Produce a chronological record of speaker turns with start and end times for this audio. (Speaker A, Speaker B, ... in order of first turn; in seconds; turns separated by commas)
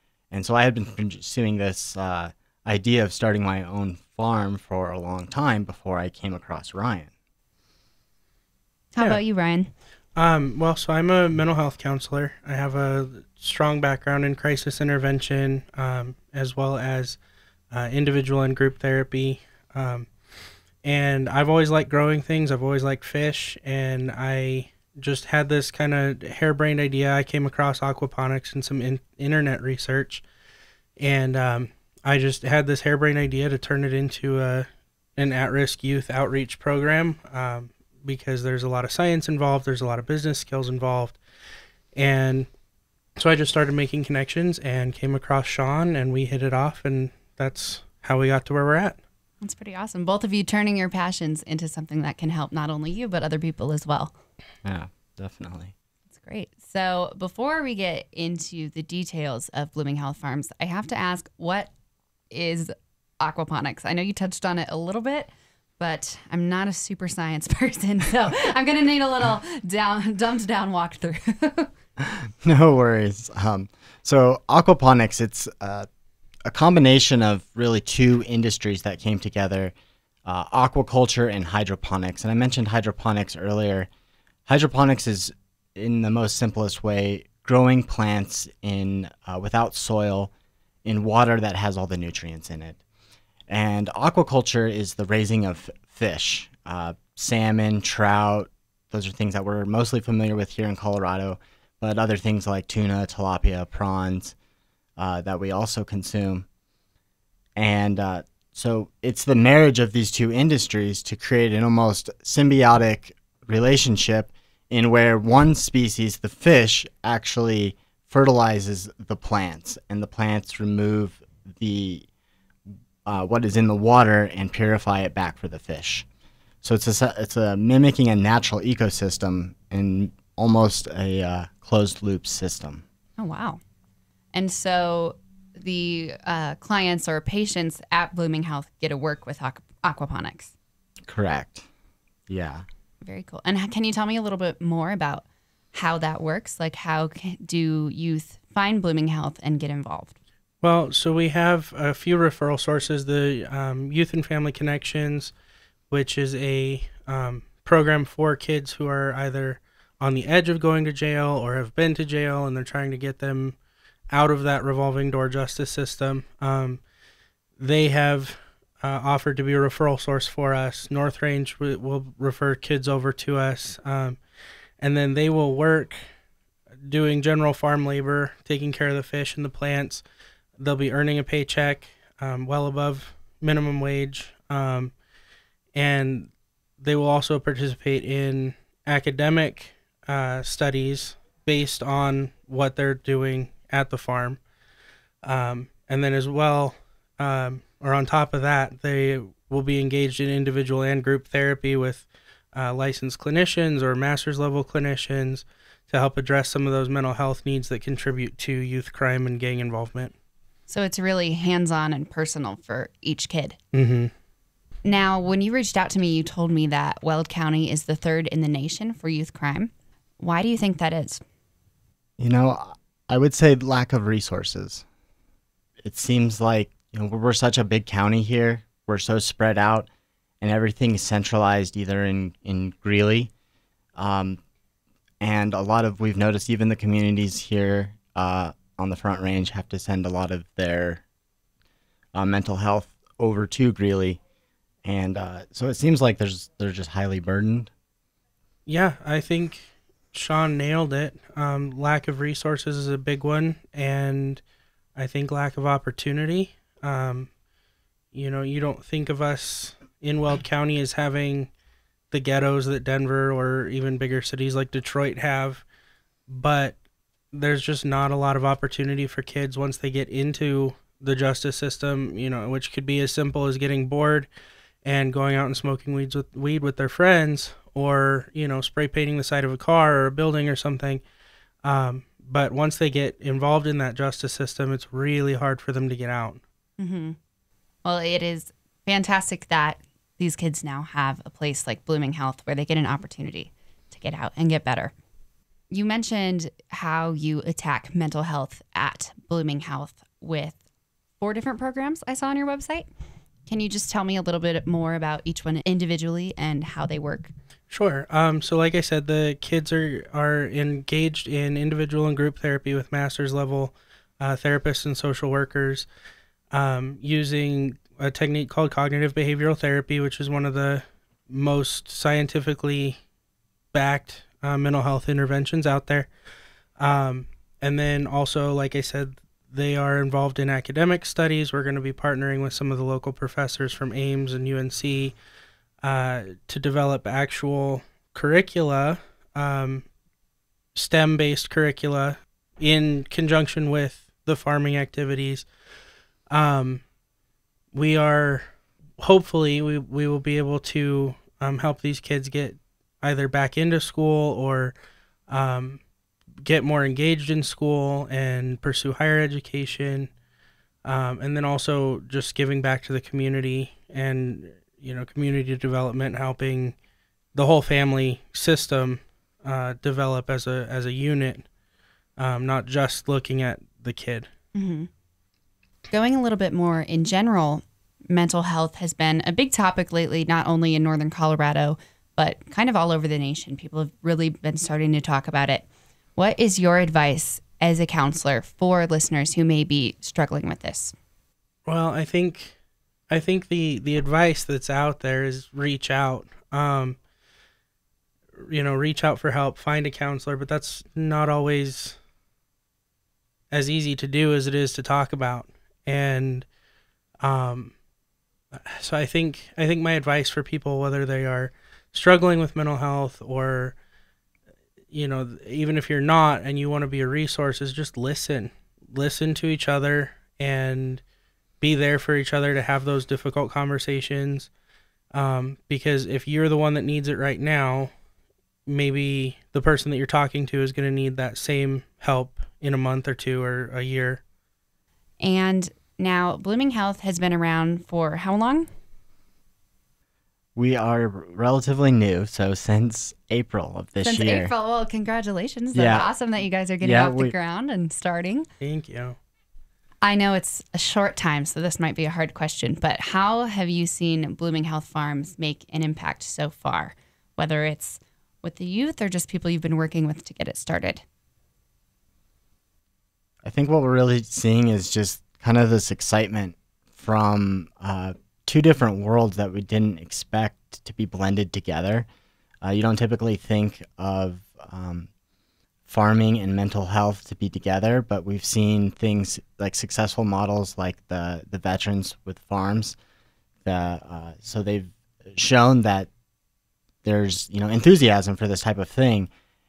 Speaker A: 0.3-7.1, Speaker B: 8.9-9.7, Speaker C: 10.2-17.2, Speaker C: 17.7-20.1, Speaker C: 20.8-30.2, Speaker C: 31.0-41.2, Speaker C: 41.9-42.5, Speaker C: 43.2-49.0, Speaker B: 49.4-54.1, Speaker A: 54.6-55.7, Speaker B: 56.1-61.7, Speaker B: 62.3-71.7, Speaker A: 72.0-75.9, Speaker A: 76.5-79.7, Speaker A: 80.2-83.9, Speaker A: 84.5-90.3, Speaker A: 90.8-92.8, Speaker A: 93.5-104.3, Speaker A: 105.0-106.4, Speaker A: 107.5-122.1, Speaker A: 123.0-126.0, Speaker A: 126.6-132.8, Speaker B: 133.2-133.6, Speaker B: 134.3-140.5, Speaker A: 141.1-141.7, Speaker A: 142.3-142.6, Speaker B: 143.0-150.2, Speaker C: 150.6-155.3, Speaker C: 155.9-163.6, Speaker C: 164.1-166.8, Speaker C: 167.6-174.2, Speaker C: 174.8-176.0, Speaker C: 176.8-180.0, Speaker C: 180.6-184.9, Speaker C: 185.7-194.4, Speaker C: 195.2-210.1, Speaker B: 210.7-213.6, Speaker C: 213.7-214.1, Speaker B: 214.8-221.2, Speaker A: 222.2-224.8, Speaker A: 225.8-229.9, Speaker A: 230.4-233.3, Speaker A: 233.9-234.4, Speaker A: 235.2-241.0, Speaker A: 242.1-244.2, Speaker A: 244.8-247.7, Speaker C: 248.7-254.4, Speaker C: 254.9-257.3, Speaker C: 258.1-261.5, Speaker C: 262.1-265.6, Speaker C: 266.3-266.8, Speaker C: 267.3-274.3, Speaker C: 274.8-281.0, Speaker C: 281.6-286.4, Speaker B: 286.8-287.2, Speaker B: 287.8-294.9, Speaker B: 295.7-300.6, Speaker B: 301.2-302.9, Speaker B: 303.4-307.3, Speaker C: 307.7-315.9, Speaker C: 316.5-323.0, Speaker C: 323.7-326.1, Speaker C: 326.8-335.1, Speaker C: 335.8-339.9, Speaker C: 340.7-345.4, Speaker C: 346.3-346.8, Speaker C: 347.7-348.5, Speaker C: 349.0-354.7, Speaker C: 355.3-355.8, Speaker C: 356.4-360.1, Speaker C: 360.8-366.7, Speaker C: 367.3-371.5, Speaker C: 372.2-374.3, Speaker B: 374.5-374.9, Speaker B: 375.9-390.9, Speaker C: 391.6-392.6, Speaker C: 393.1-397.0, Speaker C: 398.4-402.0, Speaker C: 403.5-406.4, Speaker C: 407.2-407.7, Speaker C: 408.5-413.8, Speaker C: 414.9-421.0, Speaker C: 421.6-424.5, Speaker C: 425.1-427.9, Speaker C: 428.7-434.2, Speaker B: 435.2-438.7, Speaker A: 440.6-444.5, Speaker B: 444.0-448.4, Speaker A: 445.7-446.1, Speaker A: 446.8-447.3, Speaker C: 448.6-449.2, Speaker B: 450.0-461.0, Speaker A: 463.4-472.1, Speaker A: 472.6-475.1, Speaker A: 475.9-482.9, Speaker A: 483.6-486.1, Speaker A: 487.0-489.3